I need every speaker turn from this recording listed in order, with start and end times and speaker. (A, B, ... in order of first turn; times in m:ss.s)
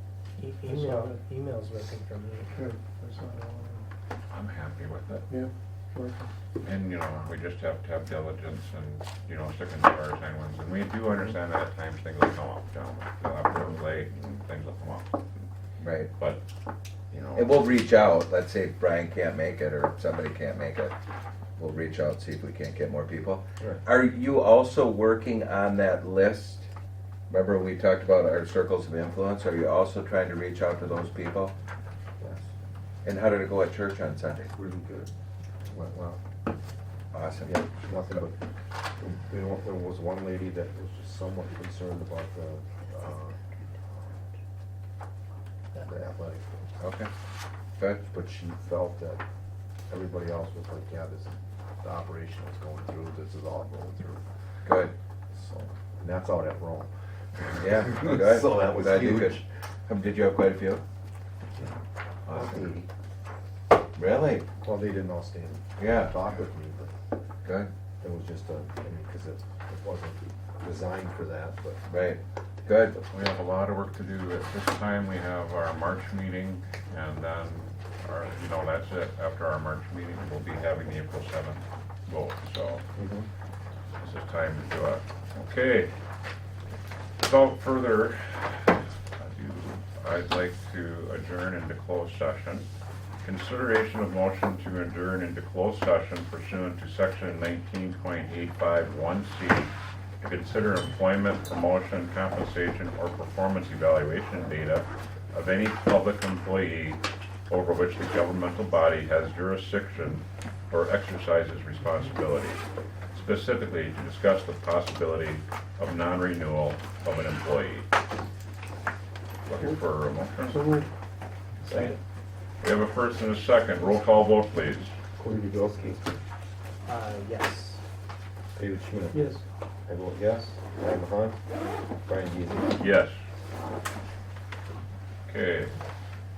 0:00.4-0:02.6 A
0:00.6-0:01.2 B
0:02.5-0:03.8 B
0:04.3-0:05.2 C
0:05.3-0:06.3 B
0:06.6-0:15.4 C
0:15.8-0:16.1 D
0:16.2-0:16.4 C
0:17.1-0:17.5 C
0:17.3-0:20.9 D
0:21.6-0:26.7 D
0:27.3-0:31.5 D
0:32.2-0:32.5 E
0:33.0-0:34.5 D
0:34.5-0:35.1 E
0:35.7-0:36.2 E
0:37.1-0:37.7 D
0:37.4-0:38.4 E
0:38.9-0:43.4 E
0:43.9-0:44.2 E
0:45.7-0:46.6 E
0:46.8-0:47.1 D
0:47.8-0:48.0 D
0:48.1-0:49.2 E
0:49.9-0:54.2 E
0:54.6-0:54.9 D
0:55.3-0:59.4 E
0:57.6-1:00.8 D
1:02.2-1:02.7 D
1:02.3-1:02.9 E
1:03.9-1:04.5 D
1:04.6-1:06.9 E
1:05.8-1:06.1 D
1:07.4-1:07.7 D
1:08.0-1:11.8 E
1:11.9-1:13.0 D
1:13.1-1:22.8 C
1:23.0-1:23.3 E
1:24.0-1:25.9 C
1:27.2-1:32.7 C
1:33.2-1:52.6 C
1:53.1-1:57.9 C
1:59.4-2:00.6 C
2:00.4-2:00.9 B
2:01.6-2:01.9 E
2:01.6-2:02.0 B
2:02.6-2:05.0 C
2:05.2-2:06.1 E
2:06.8-2:07.8 A
2:08.5-2:09.3 E
2:09.1-2:09.4 B
2:09.8-2:11.4 E
2:12.0-2:12.7 E
2:12.7-2:13.2 C
2:15.3-2:15.7 C